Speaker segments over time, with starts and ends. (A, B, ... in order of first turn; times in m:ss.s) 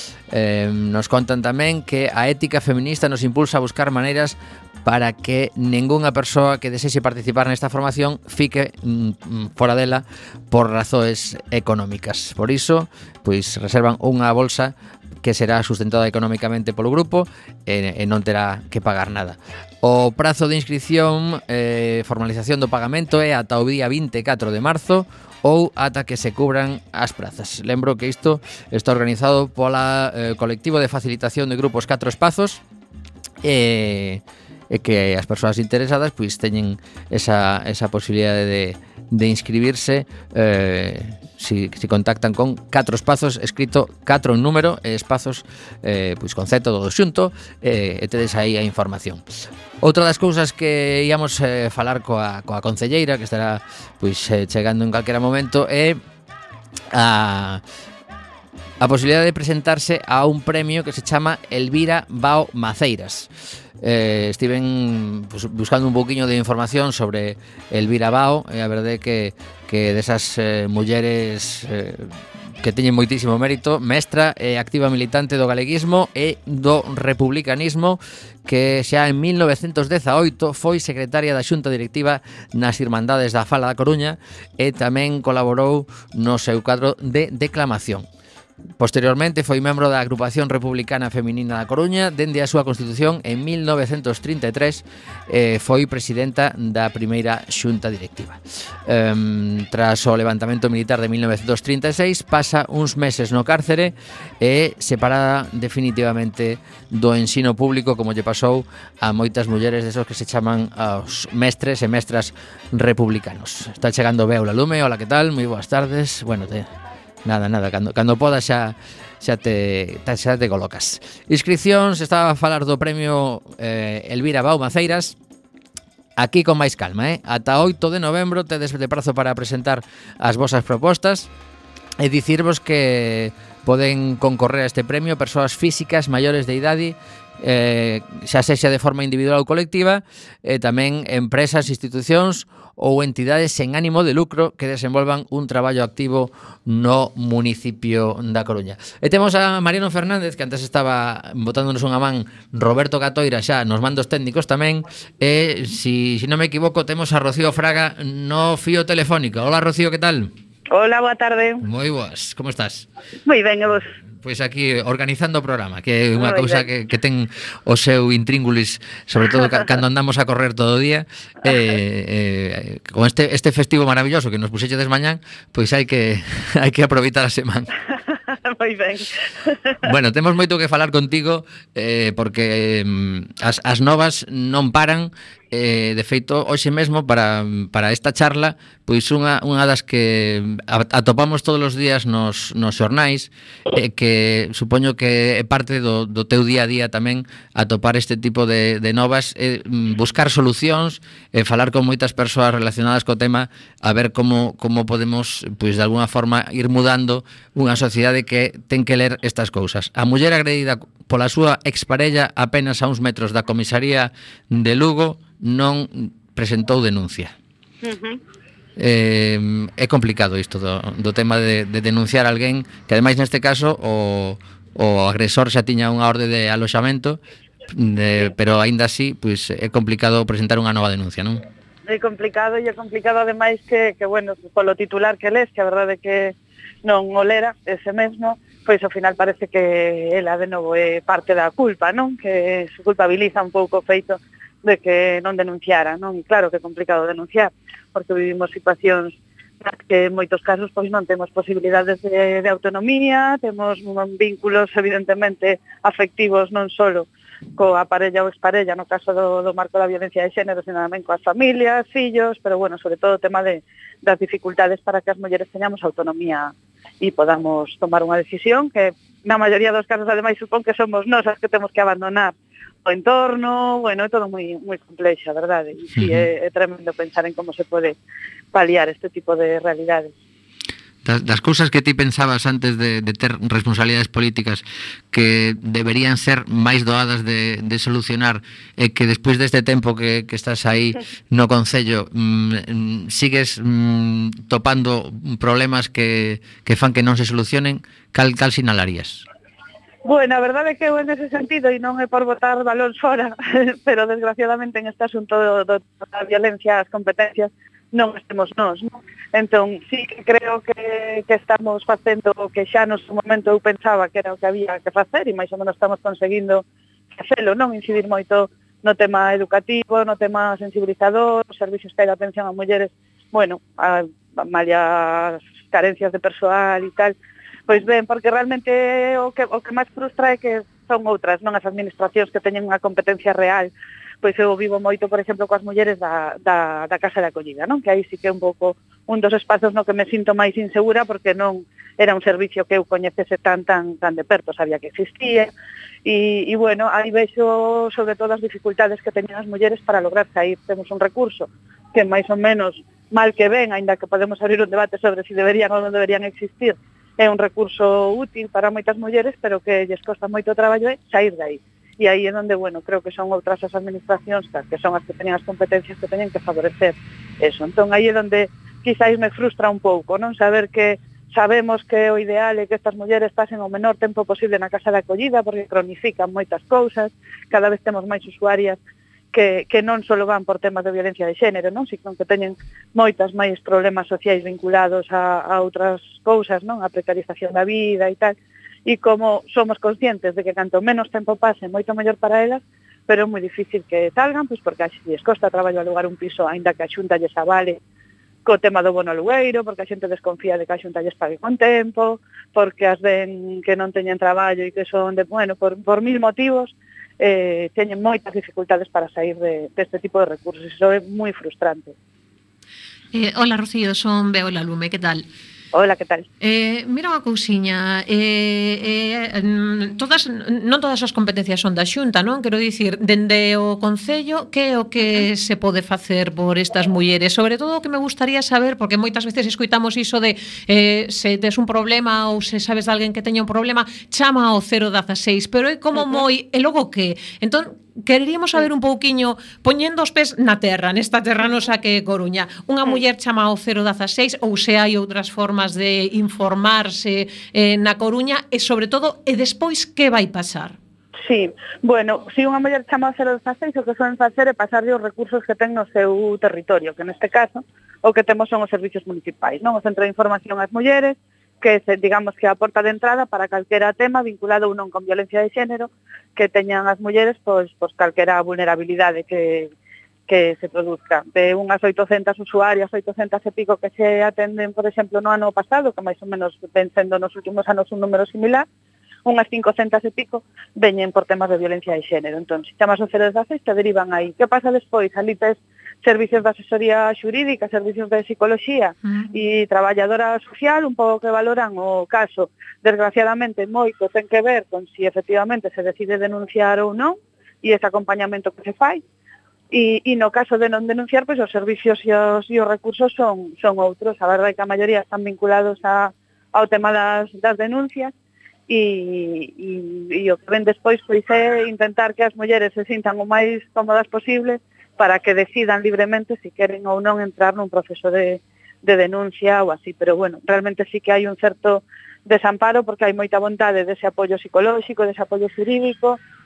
0:00.3-0:32.6 A
0:33.4-0:49.2 A
0:49.8-0:56.0 A
0:56.9-0:57.6 A
0:58.8-1:03.3 A
1:03.8-1:28.1 A
1:28.8-1:56.7 A
1:57.2-2:05.2 A
2:06.2-2:11.3 A
2:12.0-2:40.3 A
2:40.7-2:41.6 B
2:41.6-2:42.9 A
2:43.2-2:43.9 B
2:44.2-2:57.7 A
2:46.2-2:46.6 B
2:58.1-2:59.8 B
2:59.8-3:37.3 A
3:37.8-3:38.2 B
3:38.8-3:51.4 A
3:51.9-4:32.3 B
4:32.8-4:38.0 B
4:36.0-4:36.2 A
4:38.5-4:40.1 B
4:41.0-4:59.2 A
5:00.0-5:27.1 B
5:27.7-5:45.5 B
5:46.0-6:18.8 B
6:19.3-6:37.8 B
6:38.4-6:51.9 B
6:53.1-6:55.2 C
6:55.7-6:56.2 B
6:56.4-7:30.8 C
7:15.9-7:16.2 B
7:31.2-7:49.7 B
7:50.3-7:58.6 B
7:59.2-8:19.0 B
8:09.0-8:09.4 C
8:19.7-8:28.1 B
8:28.7-8:46.2 B